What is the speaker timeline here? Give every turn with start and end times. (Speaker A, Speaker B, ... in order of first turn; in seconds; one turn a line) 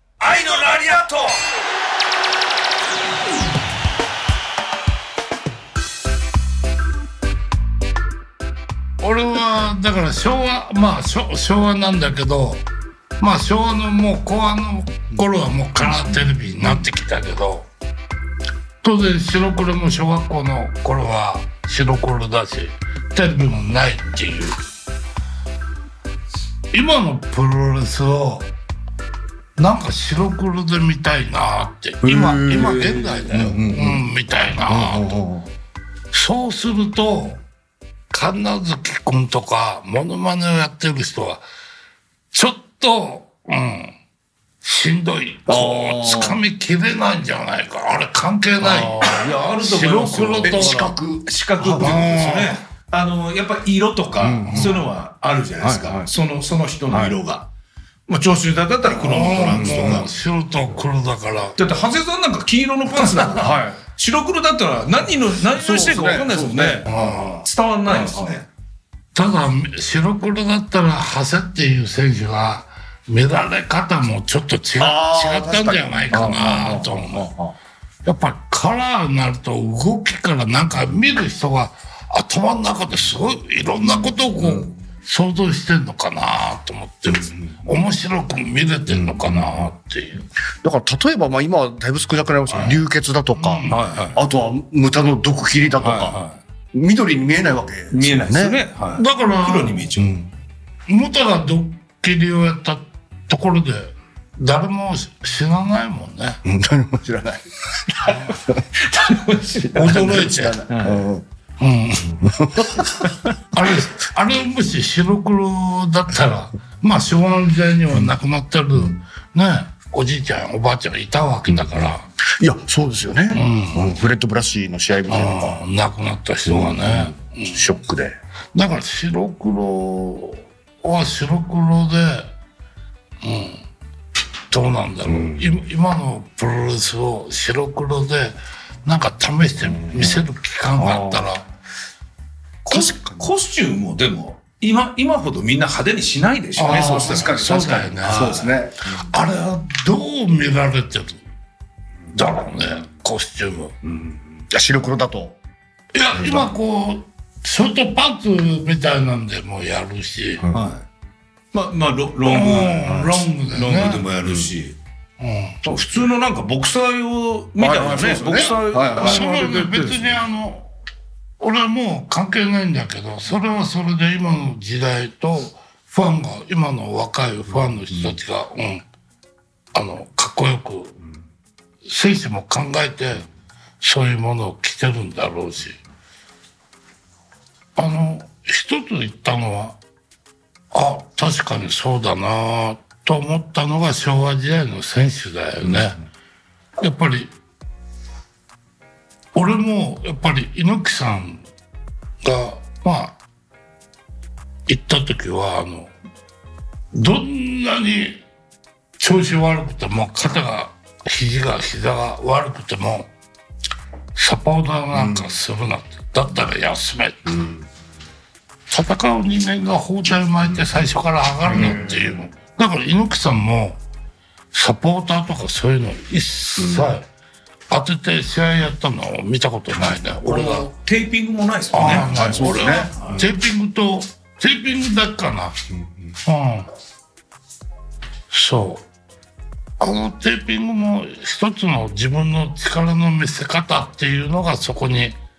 Speaker A: 0.2-1.4
Speaker B: 9.0-12.6
Speaker B: 13.2-17.7
Speaker B: 18.8-24.6
Speaker B: 26.7-28.5
Speaker B: 29.6-35.1
Speaker C: 32.0-34.0
Speaker C: 34.7-35.5
Speaker B: 36.1-37.4
Speaker B: 38.1-41.4
Speaker B: 42.3-43.9
Speaker B: 44.6-50.9
Speaker C: 45.5-46.4
Speaker C: 48.6-49.1
Speaker A: 48.6-57.5
Speaker C: 50.4-52.3
Speaker B: 51.8-52.6
Speaker C: 54.2-54.8
Speaker C: 55.6-56.1
Speaker C: 56.9-57.2
Speaker A: 58.1-60.1
Speaker B: 59.0-61.6
Speaker A: 61.6-68.5
Speaker C: 63.0-63.8
Speaker C: 65.5-68.4
Speaker B: 66.9-67.4
Speaker B: 69.1-77.3
Speaker C: 74.8-77.5
Speaker B: 78.0-90.2
Speaker A: 84.4-84.7
Speaker C: 90.6-96.2
Speaker B: 93.3-93.8
Speaker A: 93.7-94.2
Speaker A: 95.8-96.4
Speaker C: 96.7-98.6
Speaker A: 97.9-100.2
Speaker B: 99.0-99.8
Speaker B: 100.9-106.4
Speaker C: 106.4-107.4
Speaker C: 108.1-108.6
Speaker A: 108.8-111.1
Speaker B: 109.7-110.6
Speaker C: 109.8-111.2
Speaker B: 111.6-112.8
Speaker C: 112.2-113.1
Speaker B: 113.5-122.1
Speaker C: 122.4-125.6
Speaker B: 123.3-123.9
Speaker B: 125.1-127.6
Speaker C: 126.6-128.2
Speaker B: 128.5-132.3
Speaker B: 133.2-133.6
Speaker B: 134.5-141.4
Speaker C: 139.9-140.2
Speaker C: 140.8-141.3
Speaker A: 142.6-148.5
Speaker C: 142.7-143.3
Speaker B: 146.6-148.4
Speaker C: 146.6-149.1
Speaker B: 148.9-151.2
Speaker B: 152.1-153.8
Speaker C: 154.5-155.4
Speaker B: 155.9-160.5
Speaker A: 160.5-160.8
Speaker A: 161.5-164.8
Speaker B: 162.2-164.0
Speaker B: 165.2-165.6
Speaker A: 165.6-170.0
Speaker C: 167.6-169.5
Speaker B: 169.0-170.7
Speaker B: 171.4-178.8
Speaker B: 179.7-180.9
Speaker B: 181.9-183.2
Speaker B: 183.8-185.8
Speaker B: 187.8-189.8
Speaker B: 190.7-196.0
Speaker B: 196.8-197.3
Speaker B: 199.3-201.4
Speaker B: 202.2-203.2
Speaker B: 204.7-205.9
Speaker B: 206.9-208.2
Speaker B: 209.0-213.1
Speaker B: 214.1-217.4
Speaker B: 218.7-223.8
Speaker C: 221.8-222.1
Speaker B: 224.5-227.1
Speaker B: 227.7-230.7
Speaker A: 230.2-233.2
Speaker B: 231.7-235.6
Speaker C: 231.8-232.9
Speaker B: 236.2-236.7
Speaker B: 238.3-238.8
Speaker B: 239.8-245.2